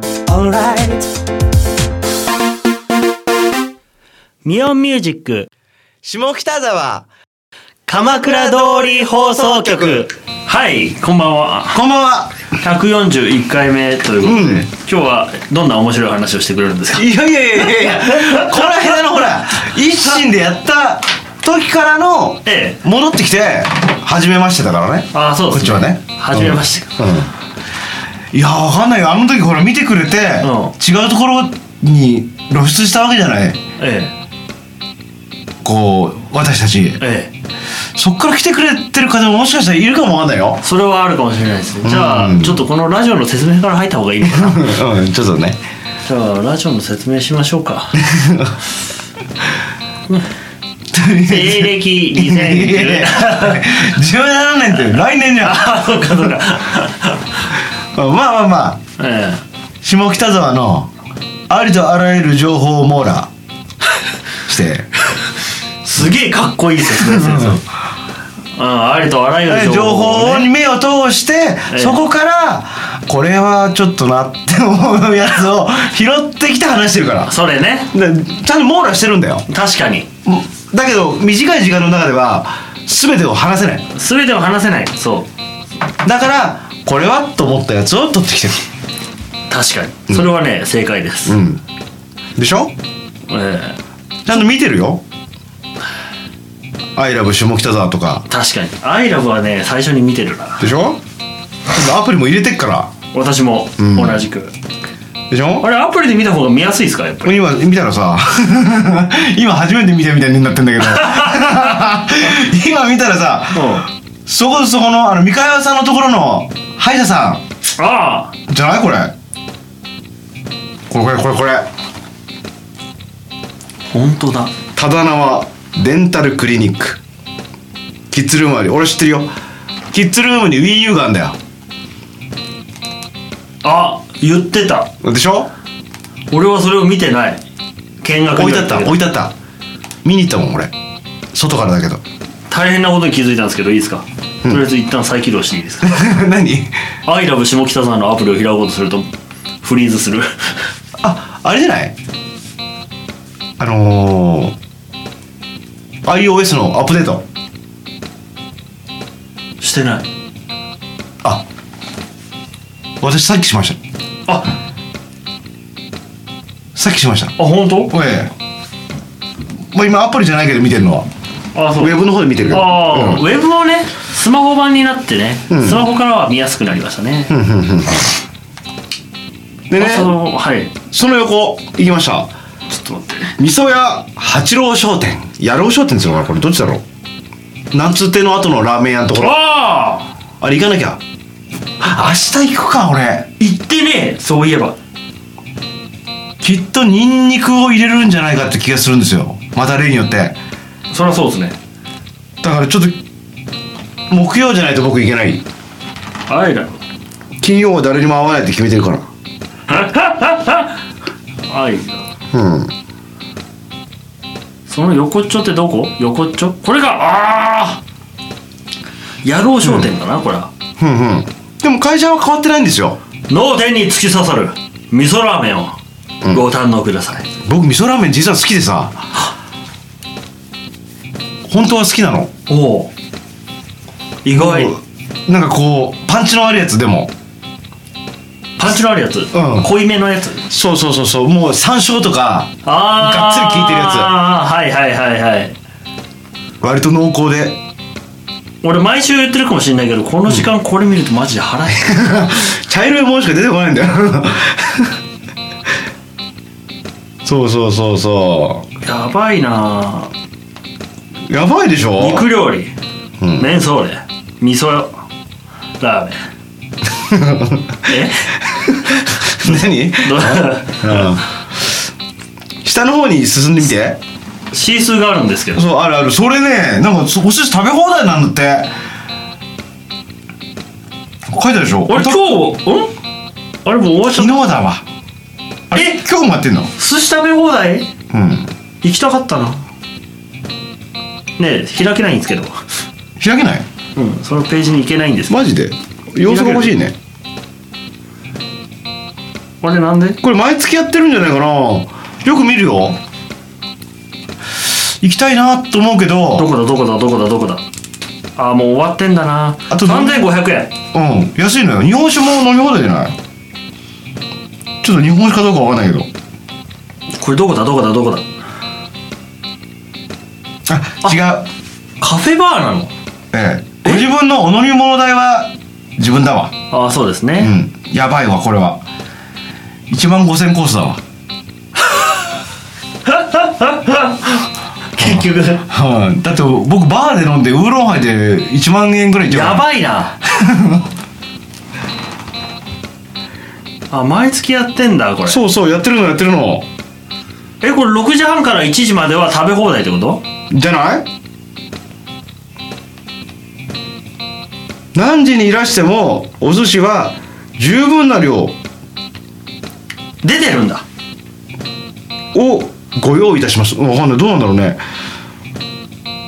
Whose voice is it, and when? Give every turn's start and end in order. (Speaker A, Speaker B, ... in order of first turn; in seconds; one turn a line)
Speaker A: 0.3-1.1
Speaker A: 4.4-5.5
Speaker B: 6.0-7.1
Speaker A: 7.9-11.8
Speaker B: 8.0-10.1
Speaker B: 11.7-12.4
Speaker A: 12.5-17.1
Speaker B: 14.2-14.7
Speaker B: 16.9-27.3
Speaker A: 17.6-18.8
Speaker A: 22.4-22.8
Speaker A: 25.1-27.0
Speaker B: 28.3-33.6
Speaker A: 30.4-30.7
Speaker A: 33.8-34.1
Speaker B: 35.6-37.0
Speaker A: 37.0-37.3
Speaker B: 38.0-40.6
Speaker A: 40.6-44.7
Speaker B: 41.8-42.6
Speaker B: 44.2-45.6
Speaker A: 46.0-48.0
Speaker B: 47.9-48.5
Speaker B: 50.9-56.2
Speaker A: 51.2-53.8
Speaker A: 55.4-57.4
Speaker B: 57.9-58.8
Speaker A: 59.0-59.4
Speaker B: 59.8-60.9
Speaker B: 61.5-63.3
Speaker B: 64.5-64.9
Speaker A: 65.8-67.7
Speaker B: 66.9-67.6
Speaker A: 68.5-70.5
Speaker B: 69.4-77.3
Speaker A: 71.7-72.0
Speaker A: 77.2-77.9
Speaker B: 77.9-79.5
Speaker A: 79.5-80.1
Speaker B: 80.2-83.9
Speaker A: 83.9-85.3
Speaker B: 86.0-88.7
Speaker A: 89.5-91.4
Speaker B: 91.2-91.6
Speaker B: 92.3-92.7
Speaker A: 93.3-93.8
Speaker B: 94.2-95.0
Speaker B: 97.0-98.3
Speaker A: 98.3-100.7
Speaker B: 100.6-101.0
Speaker B: 101.7-102.9
Speaker A: 103.1-104.5
Speaker B: 103.8-104.2
Speaker B: 105.3-105.7
Speaker A: 105.6-107.4
Speaker B: 107.2-117.4
Speaker A: 110.9-111.6
Speaker A: 113.5-113.9
Speaker A: 117.8-118.3
Speaker B: 118.5-119.1
Speaker B: 120.9-121.7
Speaker A: 123.9-124.5
Speaker B: 124.8-127.0
Speaker B: 128.1-129.3
Speaker B: 129.9-131.3
Speaker A: 133.6-134.9
Speaker B: 135.0-135.5
Speaker A: 136.3-137.4
Speaker A: 138.0-139.0
Speaker B: 138.3-139.3
Speaker B: 140.0-140.7
Speaker B: 141.3-142.0
Speaker A: 142.5-146.1
Speaker B: 145.8-146.8
Speaker A: 147.0-149.1
Speaker A: 149.6-150.6
Speaker B: 151.0-151.9
Speaker B: 153.6-154.6
Speaker B: 156.0-157.2
Speaker A: 159.6-160.1
Speaker B: 163.0-163.8
Speaker B: 166.7-167.3
Speaker A: 167.4-167.9
Speaker B: 167.9-168.3
Speaker B: 169.7-171.1
Speaker A: 171.5-177.3
Speaker B: 171.8-173.2
Speaker B: 175.5-175.8
Speaker B: 177.3-178.1
Speaker B: 179.7-180.2
Speaker A: 179.7-180.7
Speaker B: 180.9-182.3
Speaker A: 182.7-183.3
Speaker B: 183.4-186.8
Speaker B: 187.7-189.4
Speaker A: 189.2-190.1
Speaker B: 190.4-191.0
Speaker B: 191.8-193.3
Speaker A: 193.4-194.8
Speaker B: 196.4-200.4
Speaker A: 200.9-201.6
Speaker B: 202.4-203.0
Speaker B: 204.1-205.4
Speaker A: 206.3-206.8
Speaker B: 207.4-209.0
Speaker A: 209.7-210.7
Speaker A: 211.5-212.1
Speaker B: 212.3-212.7
Speaker A: 214.7-217.8
Speaker A: 219.2-220.5
Speaker B: 219.6-219.9
Speaker B: 220.8-223.0
Speaker A: 223.3-225.8
Speaker A: 226.3-227.2
Speaker B: 227.4-229.0
Speaker B: 231.4-232.3
Speaker A: 232.5-232.9
Speaker A: 234.2-234.7
Speaker B: 234.3-237.1
Speaker A: 238.6-240.4
Speaker B: 239.3-239.7
Speaker B: 240.5-244.1
Speaker A: 242.6-245.6
Speaker B: 246.6-247.6
Speaker A: 248.6-252.0
Speaker B: 251.8-254.9
Speaker B: 257.2-258.6
Speaker A: 258.8-260.1
Speaker B: 261.3-262.3
Speaker A: 262.0-262.7
Speaker B: 263.2-263.5
Speaker A: 263.4-264.9
Speaker A: 265.8-266.2
Speaker B: 267.0-267.7
Speaker A: 267.8-268.3
Speaker B: 268.7-271.3
Speaker A: 269.3-271.1
Speaker B: 272.6-274.0
Speaker A: 274.5-275.6
Speaker B: 275.5-278.7
Speaker B: 281.3-282.2
Speaker A: 281.9-282.9
Speaker A: 283.6-284.4
Speaker B: 284.1-284.8
Speaker B: 285.7-286.7
Speaker A: 285.7-286.0
Speaker A: 286.8-287.9
Speaker B: 288.1-288.5
Speaker A: 288.8-289.6
Speaker A: 291.4-292.6
Speaker B: 293.2-293.6
Speaker A: 293.9-295.4
Speaker B: 295.3-296.9
Speaker A: 296.2-296.7
Speaker A: 299.6-300.2
Speaker B: 300.2-303.0
Speaker B: 305.0-306.5
Speaker A: 306.4-307.6
Speaker A: 308.4-310.7
Speaker B: 309.7-310.3
Speaker B: 310.9-313.1
Speaker B: 314.8-316.1
Speaker A: 317.1-318.2
Speaker B: 320.7-321.5
Speaker A: 322.0-322.9
Speaker B: 323.3-326.5
Speaker A: 326.7-327.5
Speaker B: 327.4-328.8
Speaker B: 329.9-331.0
Speaker A: 333.1-335.6
Speaker B: 335.0-339.7
Speaker A: 339.3-340.1
Speaker B: 340.3-340.9
Speaker A: 343.9-345.4
Speaker B: 345.2-346.7
Speaker A: 347.6-350.2
Speaker B: 350.5-351.1
Speaker B: 354.9-358.6
Speaker A: 360.2-360.8
Speaker B: 362.3-364.8